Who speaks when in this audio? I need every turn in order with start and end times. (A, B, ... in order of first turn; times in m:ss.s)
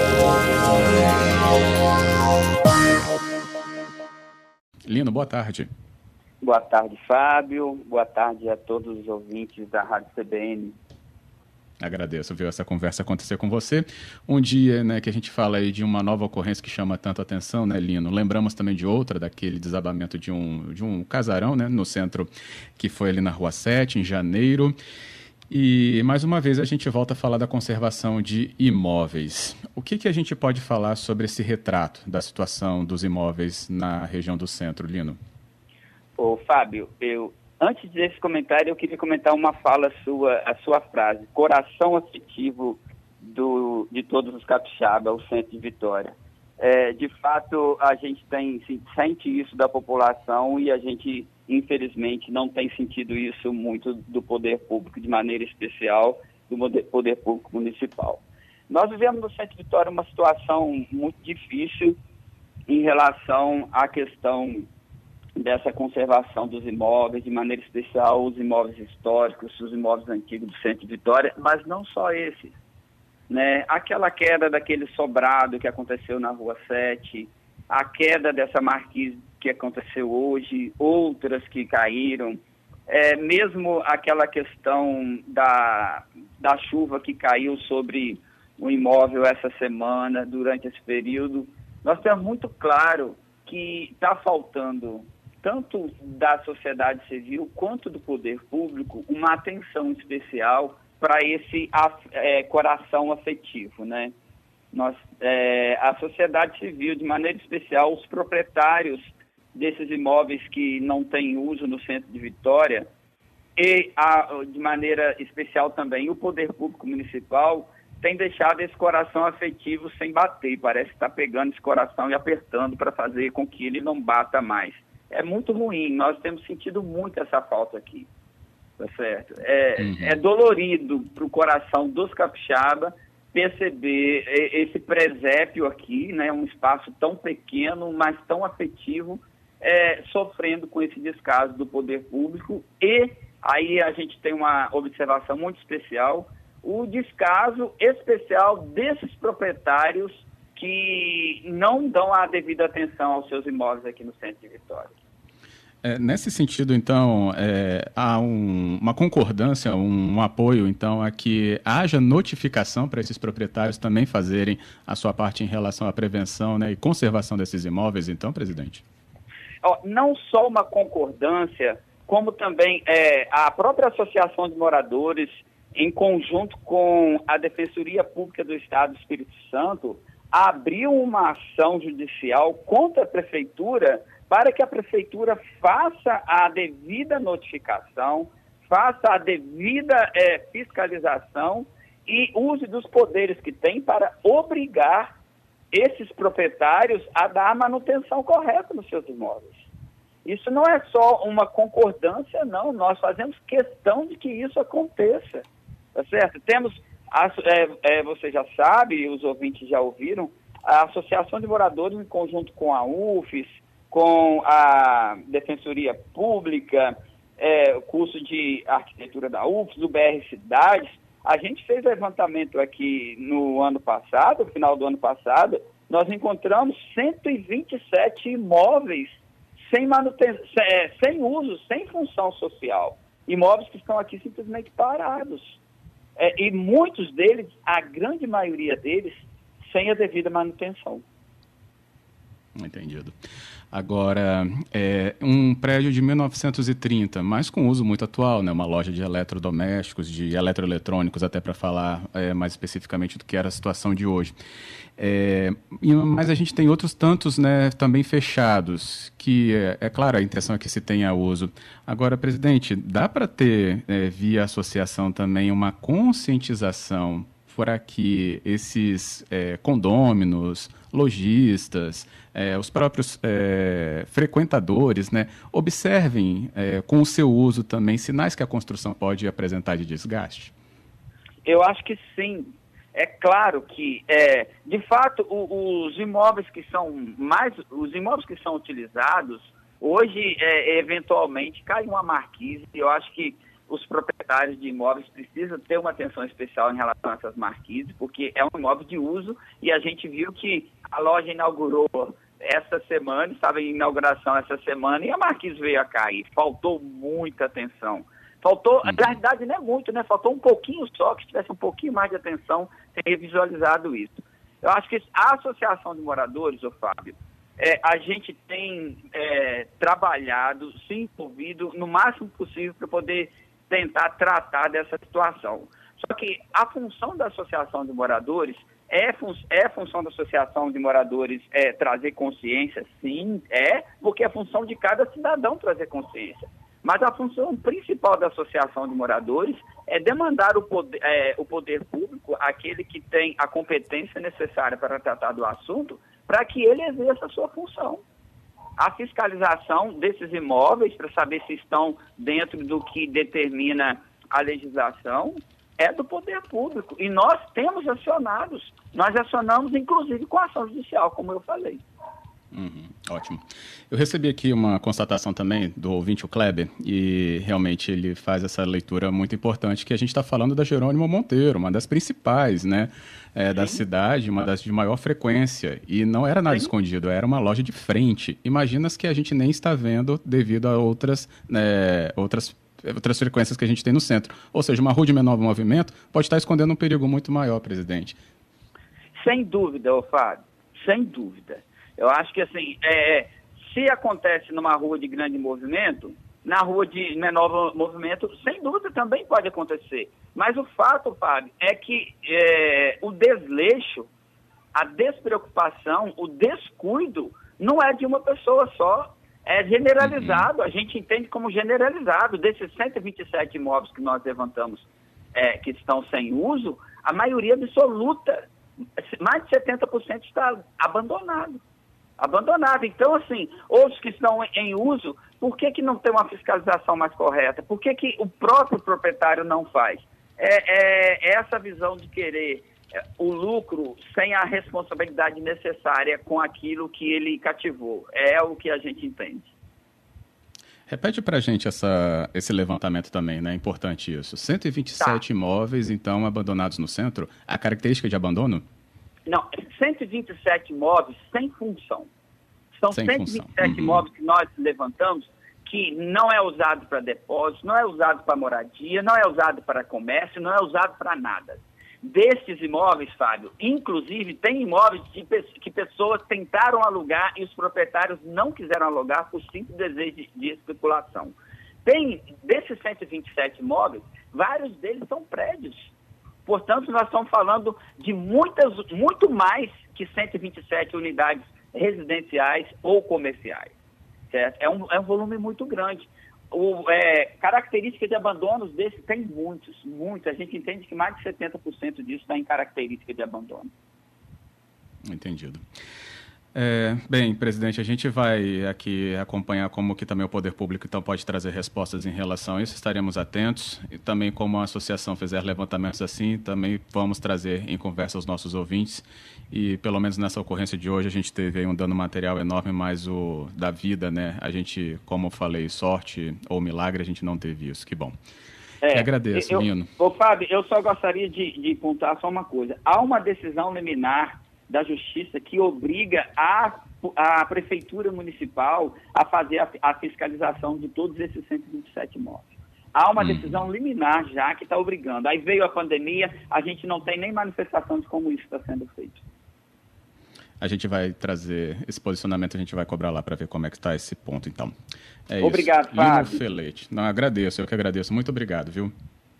0:04.9-0:05.7 A
0:06.4-0:10.8 B
0:11.8-0:24.7 A
0:25.5-0:35.2 A
0:36.2-1:02.0 B
1:02.7-1:04.7 B
1:05.4-1:12.6 B
1:13.3-1:44.1 B
1:44.7-1:52.9 B
1:53.6-2:08.1 B
2:08.8-2:35.0 B
2:09.8-2:10.2 A
2:35.8-2:48.8 A
2:49.6-3:15.1 B
3:15.7-3:19.7 B
3:20.2-3:55.6 B
3:56.2-4:01.0 B
4:02.6-4:03.1 A
4:03.7-4:14.3 A
4:15.0-4:40.5 A
4:41.4-5:48.0 B
5:48.8-6:01.8 B
6:02.5-6:28.2 A
6:29.2-6:44.1 B
6:44.7-6:58.5 B
6:50.0-6:50.5 A
6:59.0-7:01.6 B
7:02.2-7:19.5 B
7:20.9-7:28.6 A
7:29.2-7:32.1 B
7:32.8-7:55.9 B
7:32.9-7:34.0 A
7:56.4-8:03.7 B
8:04.3-8:13.7 B
8:15.1-8:15.6 A
8:16.5-8:38.1 A
8:38.8-8:59.2 B
8:38.9-8:39.9 A
8:53.2-8:53.6 A
9:00.6-9:04.7 A
9:05.3-9:08.9 A
9:05.4-9:06.4 B